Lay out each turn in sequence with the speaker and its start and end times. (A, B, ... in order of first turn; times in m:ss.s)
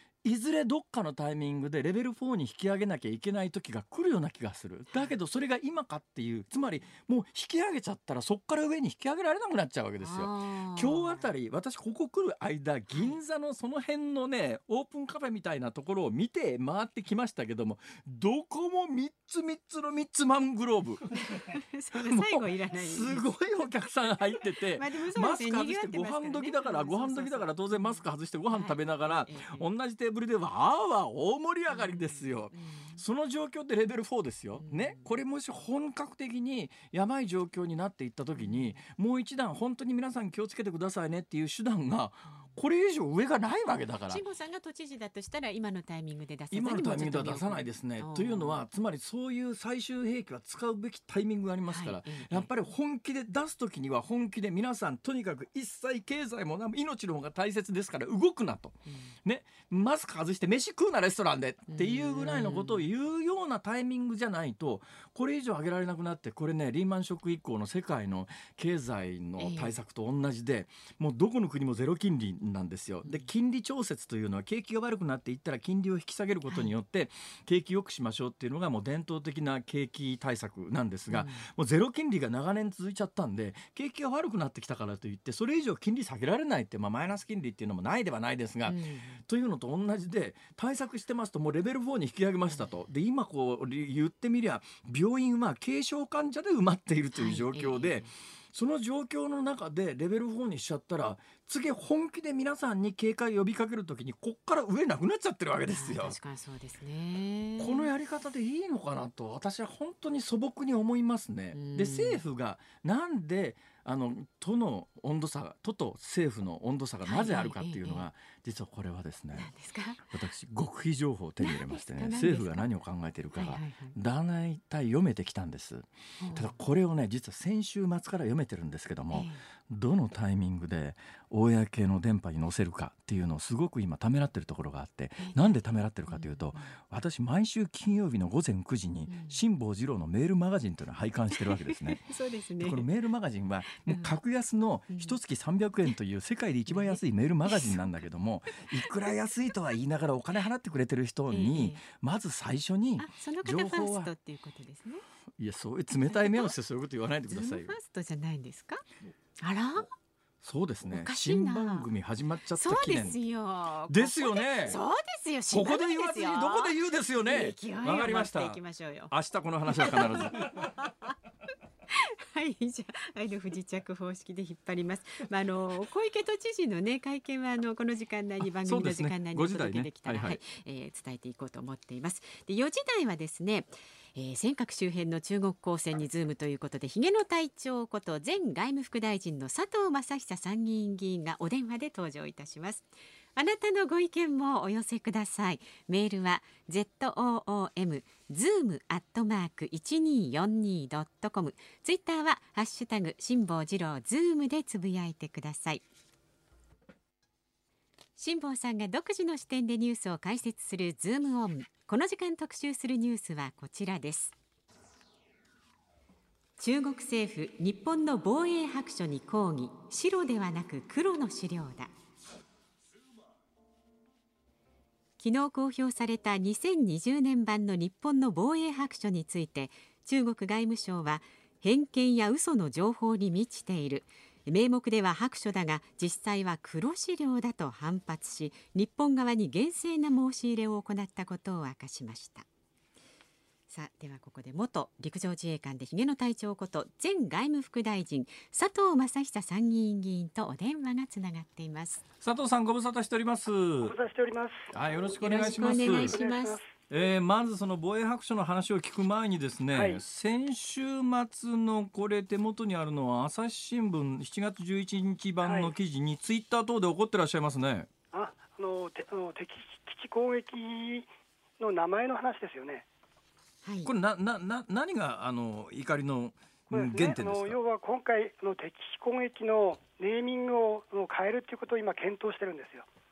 0:00.2-0:21.1 A
0:04.9-0:05.2 B
0:10.0-0:11.3 B
0:12.9-0:13.2 B
0:21.2-0:23.7 B
0:21.9-0:44.2 A
0:24.6-0:29.7 B
0:31.7-0:33.0 B
0:34.6-0:35.2 B
0:38.4-0:38.8 B
0:44.1-0:48.6 B
0:46.5-1:46.2 A
0:51.7-0:52.5 B
0:58.8-0:59.1 B
1:01.7-1:02.8 B
1:09.4-1:09.8 B
1:13.0-1:13.3 B
1:16.5-1:16.7 B
1:21.1-1:21.5 B
1:28.6-1:29.2 B
1:32.5-1:32.8 B
1:37.1-1:38.1 B
1:45.7-1:47.9 B
1:47.6-1:59.5 A
1:51.5-1:52.2 B
1:57.0-1:58.1 B
1:59.4-2:00.0 B
2:00.1-2:22.0 A
2:01.4-2:02.7 B
2:03.3-2:04.0 B
2:06.2-2:06.6 B
2:09.1-2:09.4 B
2:15.2-2:15.6 B
2:16.1-2:16.7 B
2:19.1-2:19.4 B
2:21.3-2:22.9 B
2:22.6-2:34.1 A
2:23.8-2:24.2 B
2:24.9-2:25.2 B
2:26.7-2:27.9 B
2:28.7-2:29.1 B
2:31.3-2:31.8 B
2:33.0-2:35.0 B
2:35.4-2:37.8 A
2:35.9-2:36.5 B
2:37.3-2:38.8 B
2:39.4-2:39.9 B
2:40.4-2:43.2 A
2:40.9-2:41.9 B
2:42.5-2:49.1 B
2:43.9-2:44.8 A
2:45.5-2:50.5 A
2:49.7-2:51.1 B
2:51.9-3:25.8 B
2:58.6-3:00.4 A
3:28.2-3:34.3 B
3:36.6-3:41.9 B
3:45.2-4:02.4 B
4:03.7-4:12.0 B
4:12.2-4:14.0 A
4:13.8-4:14.7 C
4:14.7-4:16.2 A
4:15.2-4:16.6 B
4:15.4-4:16.7 C
4:16.9-4:27.9 A
4:19.7-4:20.0 C
4:25.4-4:25.7 C
4:28.1-4:32.8 C
4:33.6-4:33.9 B
4:33.8-4:37.6 A
4:36.7-4:42.8 C